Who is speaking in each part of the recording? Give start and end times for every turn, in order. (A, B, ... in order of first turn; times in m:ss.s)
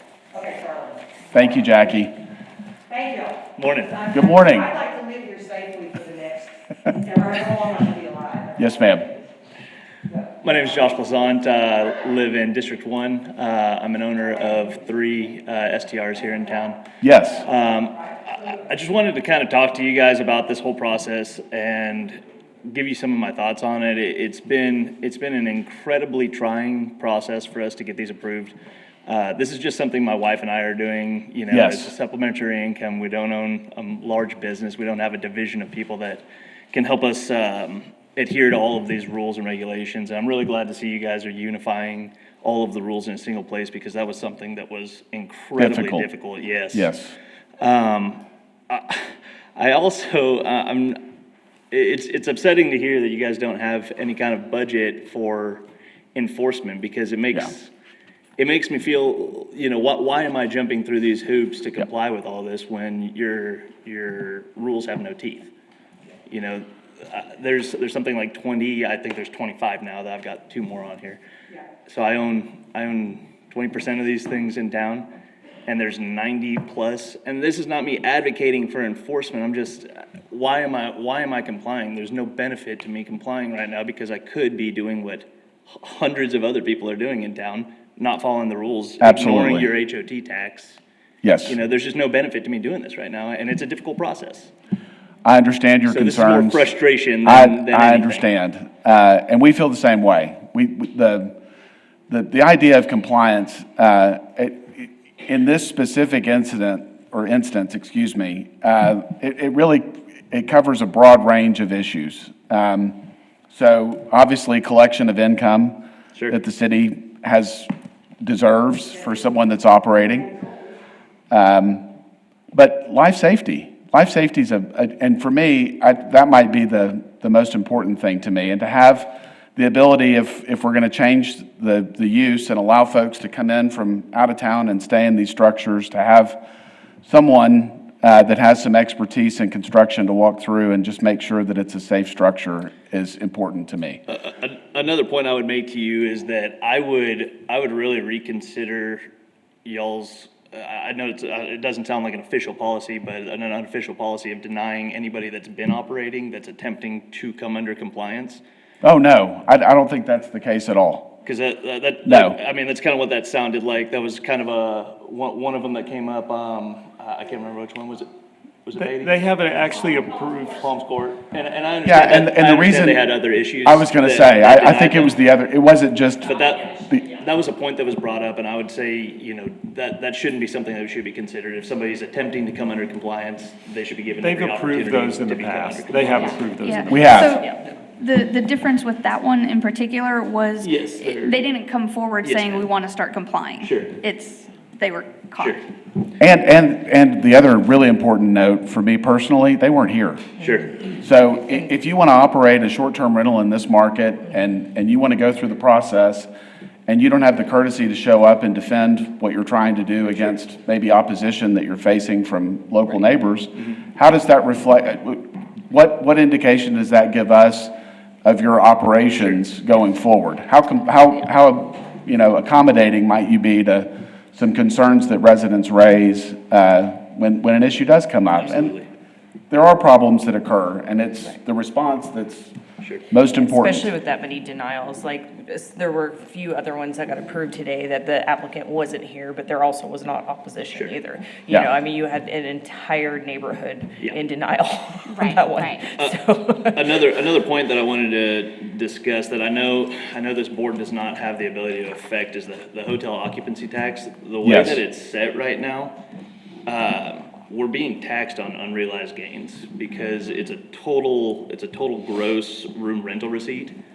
0:00.3-0:01.0 A
0:01.3-0:02.1 B
0:02.9-0:09.0 A
0:03.6-0:04.0 C
0:04.1-0:04.7 B
0:08.6-0:09.1 B
0:10.4-0:16.8 C
0:17.0-0:17.4 B
0:17.4-0:28.5 C
0:29.0-0:46.9 C
0:31.5-0:31.9 B
0:45.6-0:46.1 B
0:46.7-0:47.1 B
0:47.6-0:51.0 C
0:51.7-0:55.6 C
0:56.1-0:57.7 C
0:58.4-1:05.5 C
1:06.3-1:11.2 C
1:11.9-1:15.1 C
1:15.7-1:30.8 C
1:29.0-1:29.7 B
1:31.2-1:31.6 B
1:31.4-1:34.5 C
1:35.2-1:36.7 B
1:35.9-1:38.3 C
1:37.2-1:41.3 B
1:42.1-1:53.0 B
1:53.5-1:55.8 B
1:56.3-1:57.7 B
1:58.2-2:00.4 B
2:01.3-2:01.9 B
2:02.5-2:16.4 B
2:17.0-2:24.0 B
2:24.1-2:29.0 C
2:29.6-2:38.4 C
2:38.8-2:41.2 B
2:41.2-2:48.0 C
2:42.0-2:42.4 B
2:48.6-2:49.7 C
2:48.8-2:50.6 D
2:50.4-2:55.2 C
2:51.8-2:53.1 B
2:53.6-2:57.0 B
2:56.2-3:06.5 C
3:04.2-3:07.4 D
3:06.6-3:07.4 E
3:06.9-3:07.3 B
3:08.0-3:15.6 E
3:10.6-3:11.4 C
3:12.2-3:12.7 C
3:13.6-3:14.0 C
3:16.2-3:20.3 B
3:20.4-3:20.8 C
3:20.9-3:26.3 B
3:26.9-3:37.7 B
3:38.2-3:48.8 B
3:48.3-3:48.9 C
3:49.5-3:52.5 B
3:52.8-3:53.0 C
3:53.1-3:53.9 B
3:53.4-4:07.0 F
4:05.1-4:05.9 E
4:06.0-4:16.0 C
4:14.4-4:14.8 B
4:16.6-4:23.8 C